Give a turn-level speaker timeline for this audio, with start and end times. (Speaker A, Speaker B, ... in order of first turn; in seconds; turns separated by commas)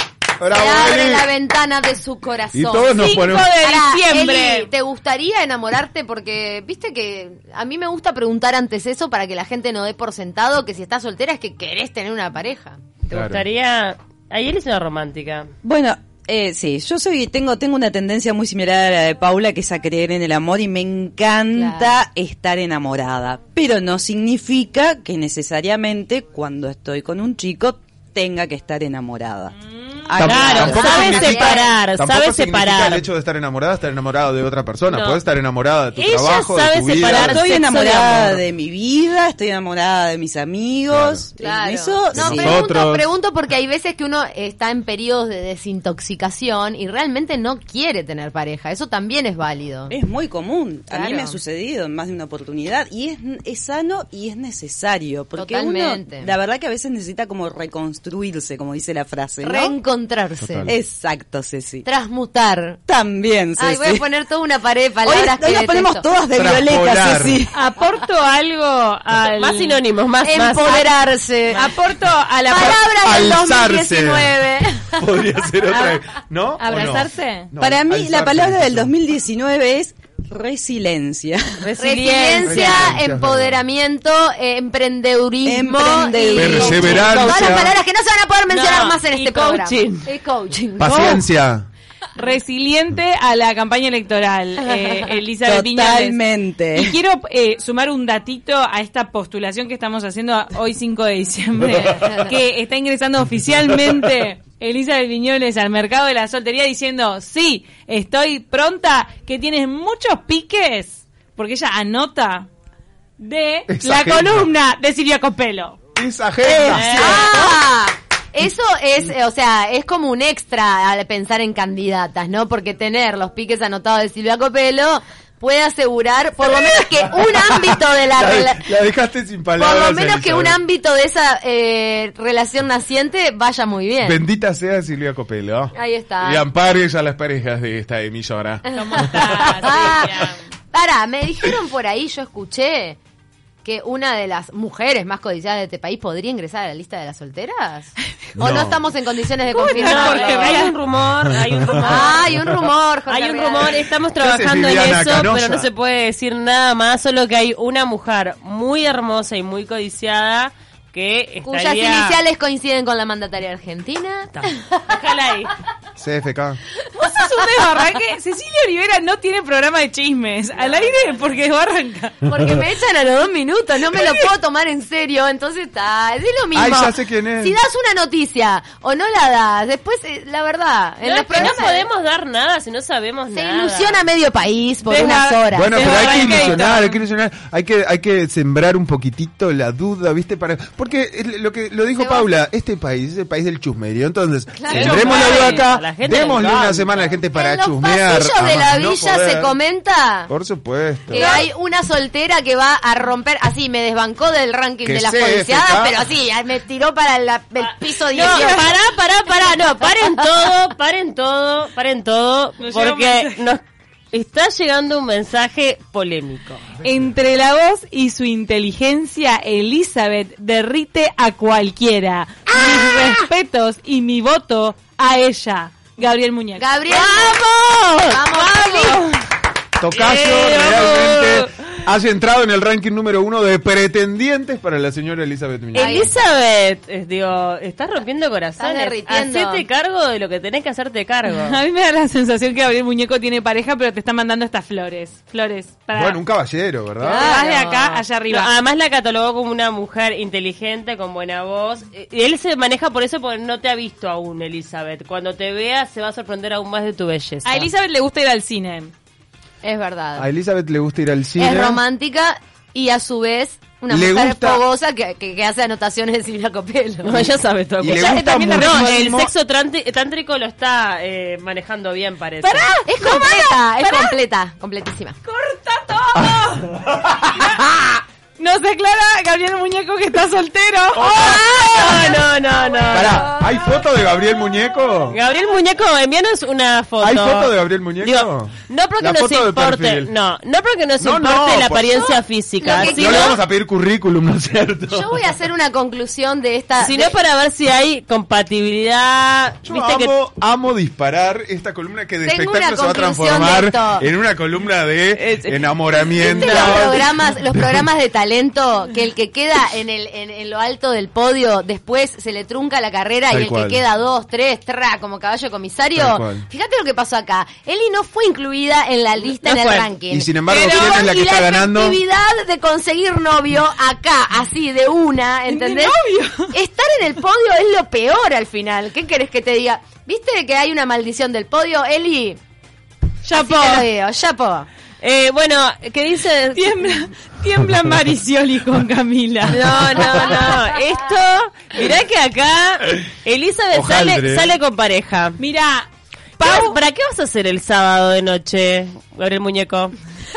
Speaker A: 0.4-1.3, Speaker B: 0.5-12.8, Speaker A: 2.5-3.5, Speaker C: 2.9-4.7, Speaker D: 13.0-15.5, Speaker A: 13.1-13.4, Speaker E: 15.6-31.4, Speaker B: 21.5-22.0, Speaker C: 29.8-30.3, Speaker A: 30.1-37.5, Speaker D: 30.2-33.0, Speaker B: 30.4-31.7, Speaker D: 34.9-35.2, Speaker D: 36.0-38.4, Speaker E: 37.0-42.6, Speaker A: 40.9-41.2, Speaker B: 41.4-49.9, Speaker A: 42.1-43.1, Speaker E: 49.9-59.7, Speaker B: 50.9-51.4, Speaker B: 55.4-56.3, Speaker B: 59.4-60.7, Speaker A: 60.4-60.7, Speaker E: 60.7-61.8, Speaker B: 61.8-62.8, Speaker E: 62.9-64.0, Speaker B: 63.6-66.0, Speaker E: 65.0-67.5, Speaker A: 66.3-67.4, Speaker C: 67.5-69.8, Speaker D: 68.9-70.9, Speaker B: 70.2-71.7, Speaker C: 71.5-72.8, Speaker B: 72.4-75.1, Speaker A: 72.7-74.3, Speaker A: 75.0-78.9, Speaker C: 76.6-77.5, Speaker E: 77.6-81.8, Speaker D: 81.6-82.9, Speaker B: 81.8-91.2, Speaker A: 82.4-83.6, Speaker E: 85.4-87.7, Speaker A: 86.3-87.7, Speaker D: 88.5-90.1, Speaker A: 90.8-91.7, Speaker C: 92.2-96.2, Speaker B: 94.7-95.1, Speaker E: 95.4-97.0, Speaker C: 96.7-112.5, Speaker B: 102.0-102.3, Speaker C: 113.2-115.8, Speaker A: 113.7-114.5, Speaker A: 116.0-117.5, Speaker B: 116.6-128.7, Speaker D: 116.6-117.4, Speaker A: 126.5-130.6, Speaker B: 129.6-134.2, Speaker A: 134.0-139.5, Speaker B: 135.7-136.4, Speaker B: 138.7-143.0, Speaker C: 138.7-140.4, Speaker D: 139.7-140.3, Speaker B: 143.6-150.7, Speaker A: 148.3-148.8, Speaker C: 149.5-150.7, Speaker D: 149.7-152.3, Speaker A: 151.2-152.6, Speaker B: 151.8-153.8, Speaker D: 153.1-162.2, Speaker A: 154.2-155.7, Speaker B: 161.4-165.0, Speaker D: 164.3-165.5, Speaker A: 166.0-166.6, Speaker C: 166.9-172.3, Speaker D: 170.7-171.1, Speaker B: 172.2-181.9, Speaker C: 173.9-174.3, Speaker A: 176.5-177.6, Speaker D: 181.0-184.0, Speaker B: 183.3-186.6, Speaker C: 184.9-187.0, Speaker A: 185.5-199.6, Speaker B: 192.0-192.2, Speaker B: 194.5-195.6, Speaker D: 194.7-197.1, Speaker C: 194.7-195.6, Speaker B: 197.3-200.3, Speaker A: 200.3-201.5, Speaker B: 201.1-208.7, Speaker D: 201.1-201.4, Speaker A: 204.8-206.1, Speaker D: 207.6-216.7, Speaker C: 208.1-208.7, Speaker C: 212.6-213.4, Speaker C: 216.8-226.9, Speaker B: 222.5-223.2, Speaker B: 226.6-227.4, Speaker D: 226.9-229.2, Speaker B: 228.1-229.0, Speaker C: 228.4-229.0, Speaker A: 229.8-236.1, Speaker D: 229.9-231.5, Speaker D: 235.7-241.6, Speaker B: 235.8-236.1, Speaker B: 238.6-239.6, Speaker C: 241.3-246.2, Speaker A: 245.9-247.3, Speaker B: 247.0-248.0, Speaker C: 247.0-248.5, Speaker D: 248.3-257.7, Speaker C: 257.4-258.9, Speaker B: 259.6-260.3, Speaker A: 260.1-261.8, Speaker B: 261.4-267.3, Speaker A: 263.9-264.6, Speaker D: 267.0-272.7, Speaker A: 267.8-269.3, Speaker C: 267.9-269.1, Speaker C: 272.4-274.2, Speaker B: 272.9-275.2, Speaker C: 275.2-276.7, Speaker A: 276.1-278.0, Speaker C: 278.4-285.3, Speaker A: 280.9-281.6, Speaker B: 281.1-282.2, Speaker D: 281.3-283.3, Speaker B: 282.9-283.2, Speaker A: 282.9-285.2, Speaker D: 285.1-293.4, Speaker A: 287.0-290.1, Speaker A: 291.0-295.2, Speaker B: 292.6-293.4, Speaker B: 294.9-297.1, Speaker D: 296.8-300.1, Speaker A: 299.6-307.9, Speaker B: 302.2-304.1, Speaker D: 305.1-307.0, Speaker B: 306.2-326.0, Speaker A: 313.3-313.8, Speaker A: 315.9-316.4, Speaker D: 319.4-319.9, Speaker A: 320.1-322.0, Speaker C: 320.5-321.1, Speaker C: 325.5-326.5, Speaker B: 326.5-332.4, Speaker C: 333.2-333.9, Speaker B: 333.4-334.7, Speaker D: 335.0-337.0, Speaker C: 336.5-340.3, Speaker D: 339.5-345.4, Speaker B: 339.7-340.7, Speaker A: 343.7-344.5, Speaker C: 345.4-346.8, Speaker D: 346.4-349.9